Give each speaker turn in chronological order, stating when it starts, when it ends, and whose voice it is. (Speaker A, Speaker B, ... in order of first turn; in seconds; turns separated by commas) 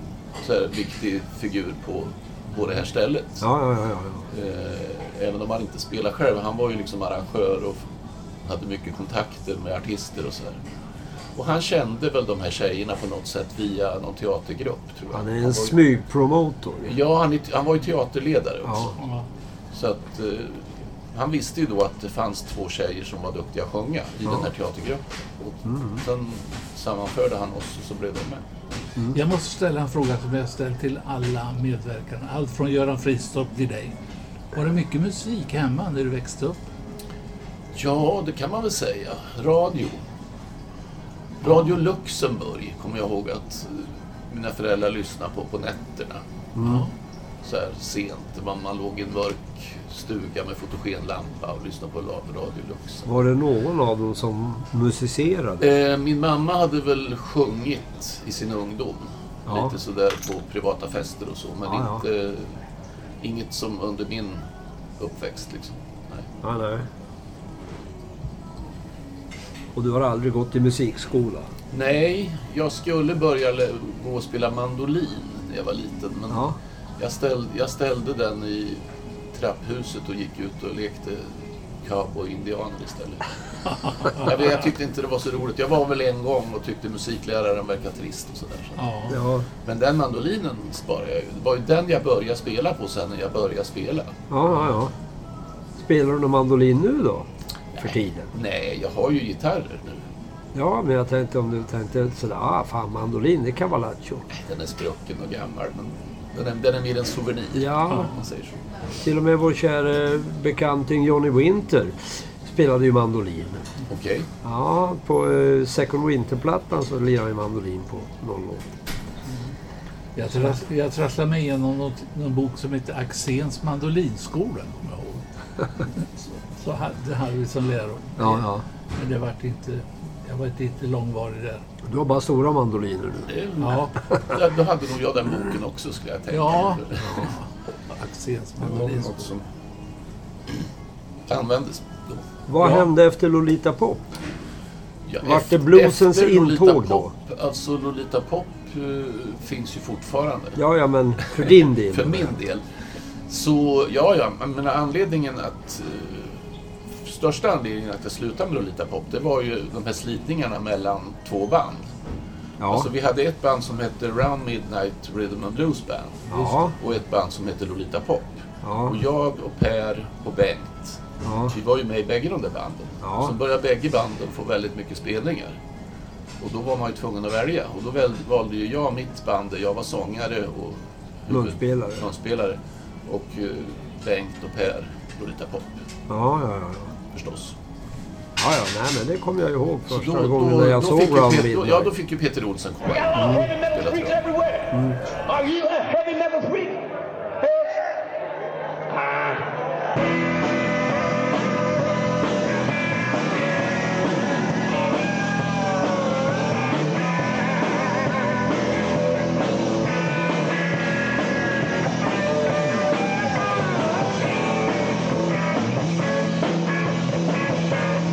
Speaker A: 0.4-3.5, Speaker B: 3.4-4.3, Speaker A: 4.3-7.8, Speaker A: 8.4-10.6, Speaker A: 11.3-15.8, Speaker B: 15.1-16.9, Speaker A: 16.8-19.0, Speaker B: 18.6-18.9, Speaker C: 19.0-19.2, Speaker A: 19.7-28.5, Speaker B: 25.6-26.0, Speaker C: 29.1-34.0, Speaker C: 34.5-36.6, Speaker A: 37.7-40.0, Speaker A: 41.4-46.2, Speaker B: 46.5-46.9, Speaker C: 46.6-46.9, Speaker A: 47.4-53.1, Speaker B: 53.0-55.6, Speaker A: 55.6-62.6, Speaker B: 59.5-59.8, Speaker B: 61.7-62.0, Speaker A: 63.2-64.4, Speaker A: 65.0-66.3, Speaker B: 66.4-66.8, Speaker B: 69.7-71.5, Speaker A: 71.7-83.2, Speaker B: 76.3-76.6, Speaker C: 84.0-84.3, Speaker A: 84.0-88.8, Speaker C: 88.8-89.2, Speaker B: 89.1-89.5, Speaker A: 89.6-94.2, Speaker B: 94.3-94.9, Speaker B: 95.8-97.3, Speaker A: 97.7-100.0, Speaker B: 97.8-98.3, Speaker B: 100.5-104.2, Speaker A: 104.3-108.6, Speaker B: 107.5-108.1, Speaker B: 109.0-113.6, Speaker A: 113.9-114.3, Speaker B: 114.4-118.7, Speaker C: 120.1-131.6, Speaker B: 128.2-128.6, Speaker B: 131.8-133.3, Speaker A: 133.3-137.3, Speaker C: 133.6-133.9, Speaker B: 134.0-134.4, Speaker C: 136.3-139.2, Speaker A: 138.6-139.4, Speaker A: 141.3-142.2, Speaker B: 142.5-144.2, Speaker C: 142.6-142.9, Speaker A: 145.1-150.6, Speaker B: 145.2-147.1, Speaker B: 150.6-152.3, Speaker A: 151.2-152.6, Speaker A: 153.3-156.4, Speaker A: 157.0-161.9, Speaker B: 162.6-162.9, Speaker A: 162.7-175.6, Speaker B: 166.3-166.7, Speaker C: 166.3-166.7, Speaker B: 168.6-169.0, Speaker B: 171.2-171.6, Speaker B: 173.0-173.3, Speaker A: 176.4-185.8, Speaker B: 181.3-182.0, Speaker B: 186.1-186.9, Speaker A: 187.1-187.6, Speaker B: 188.4-191.9, Speaker A: 189.9-194.2, Speaker D: 192.9-197.9, Speaker B: 193.1-193.5, Speaker B: 194.7-195.0, Speaker D: 198.9-199.5